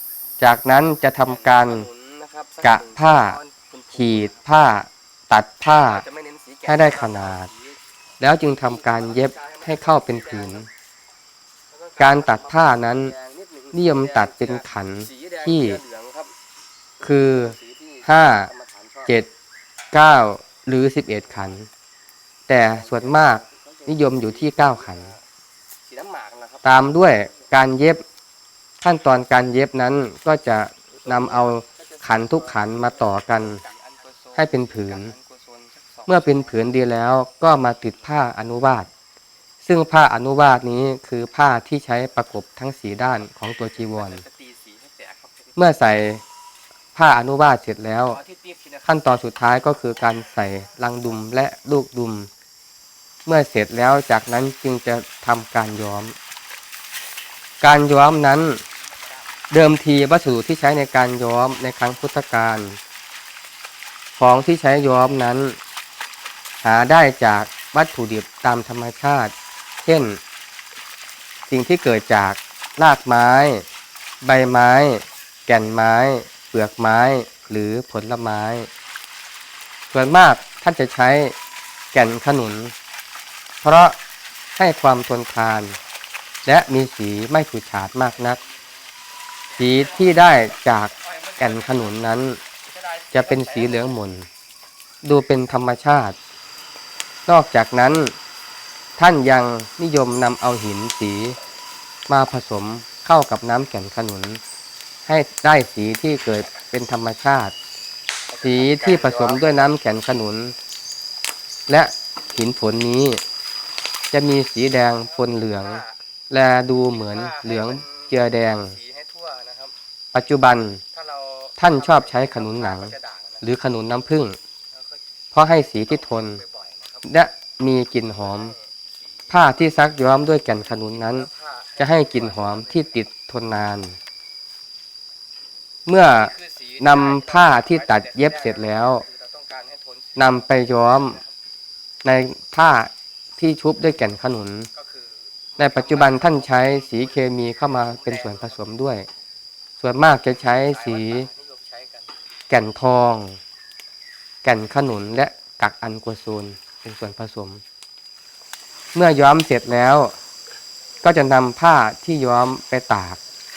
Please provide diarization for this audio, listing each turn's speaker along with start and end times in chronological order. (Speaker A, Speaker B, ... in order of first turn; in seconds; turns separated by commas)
Speaker A: 0.4-1.9, Speaker B: 1.2-4.4, Speaker A: 2.6-3.4, Speaker A: 3.9-6.0, Speaker B: 5.7-7.8, Speaker A: 6.7-7.5, Speaker A: 8.2-10.7, Speaker B: 8.6-10.6, Speaker B: 11.7-16.3, Speaker A: 12.0-13.1, Speaker A: 13.7-15.8, Speaker A: 17.0-18.5, Speaker B: 17.3-19.1, Speaker A: 19.9-21.7, Speaker A: 22.5-25.1, Speaker B: 22.8-25.2, Speaker B: 25.9-27.5, Speaker A: 26.6-28.0, Speaker A: 28.8-33.6, Speaker B: 31.1-36.7, Speaker A: 34.4-35.1, Speaker A: 36.1-38.9, Speaker A: 39.6-44.2, Speaker B: 43.8-45.6, Speaker A: 45.6-46.2, Speaker A: 47.0-48.2, Speaker B: 48.1-49.0, Speaker A: 48.9-52.3, Speaker A: 53.3-56.2, Speaker A: 57.6-58.6, Speaker A: 59.5-62.8, Speaker A: 64.2-65.6, Speaker A: 66.6-70.2, Speaker A: 71.5-73.6, Speaker A: 74.2-78.7, Speaker A: 79.9-81.3, Speaker A: 81.9-82.7, Speaker A: 83.6-84.0, Speaker A: 84.6-85.8, Speaker A: 86.5-88.4, Speaker B: 89.6-90.2, Speaker A: 89.6-92.4, Speaker B: 90.9-92.0, Speaker B: 92.7-94.0, Speaker A: 93.1-94.3, Speaker A: 95.0-96.2, Speaker A: 97.3-98.2, Speaker A: 99.0-101.4, Speaker A: 102.1-104.4, Speaker A: 105.1-107.5, Speaker B: 108.3-109.7, Speaker A: 108.4-110.5, Speaker A: 111.7-113.2, Speaker A: 114.1-118.7, Speaker B: 114.9-116.0, Speaker B: 116.9-119.8, Speaker A: 120.1-120.8, Speaker B: 120.9-123.4, Speaker A: 121.6-124.4, Speaker B: 124.7-125.0, Speaker A: 125.3-126.4, Speaker B: 125.8-127.0, Speaker A: 127.0-128.5, Speaker B: 128.1-129.3, Speaker A: 129.3-134.0, Speaker B: 130.8-133.1, Speaker A: 135.9-139.0, Speaker B: 136.0-141.3, Speaker A: 140.2-141.2, Speaker A: 142.0-144.7, Speaker B: 144.7-148.6, Speaker A: 145.6-149.1, Speaker A: 149.8-151.3, Speaker B: 150.5-152.1, Speaker A: 152.5-153.4, Speaker A: 154.4-157.6, Speaker A: 158.9-160.2, Speaker A: 161.0-163.2